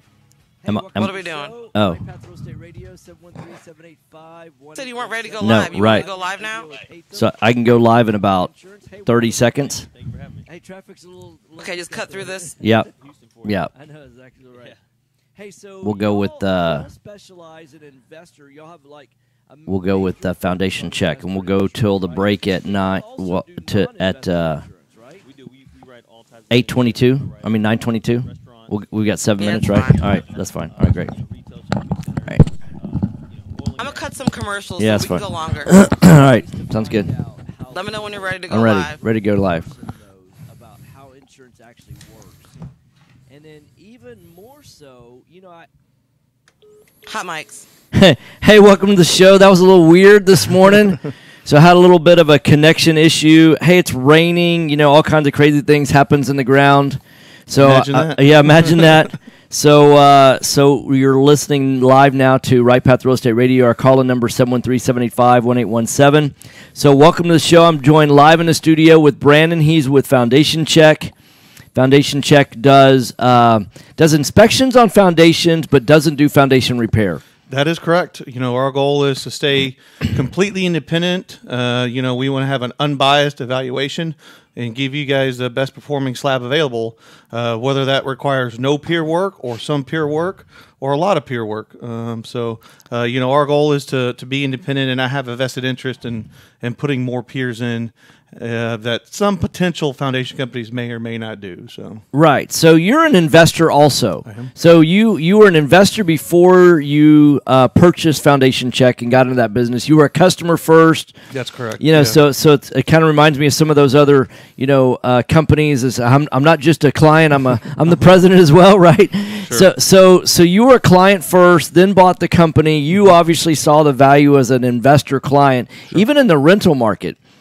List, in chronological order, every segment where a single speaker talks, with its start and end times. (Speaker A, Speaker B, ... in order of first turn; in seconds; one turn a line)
Speaker A: 0.6-14.8
Speaker B: 0.7-1.1
Speaker C: 0.9-1.6
Speaker B: 1.7-2.0
Speaker C: 4.7-6.8
Speaker B: 5.4-6.1
Speaker B: 7.1-8.5
Speaker B: 9.1-9.9
Speaker C: 11.6-12.6
Speaker B: 12.6-12.9
Speaker B: 13.4-13.7
Speaker A: 15.3-25.3
Speaker B: 15.8-16.9
Speaker B: 19.7-24.7
Speaker D: 25.3-26.9
Speaker B: 26.5-31.1
Speaker A: 26.7-27.7
Speaker C: 29.4-30.1
Speaker A: 30.1-31.1
Speaker D: 30.2-32.3
Speaker D: 33.6-33.8
Speaker A: 33.6-34.1
Speaker C: 33.8-35.7
Speaker B: 34.8-37.1
Speaker A: 35.0-42.6
Speaker C: 37.7-39.0
Speaker B: 38.5-39.7
Speaker A: 43.3-45.7
Speaker C: 47.1-47.7
Speaker B: 47.9-71.1
Speaker E: 57.6-59.1
Speaker B: 71.8-77.2
Speaker E: 77.5-102.0
Speaker B: 102.1-111.2
Speaker E: 104.2-104.5
Speaker E: 111.3-112.2
Speaker B: 111.8-127.2
Speaker E: 119.4-119.7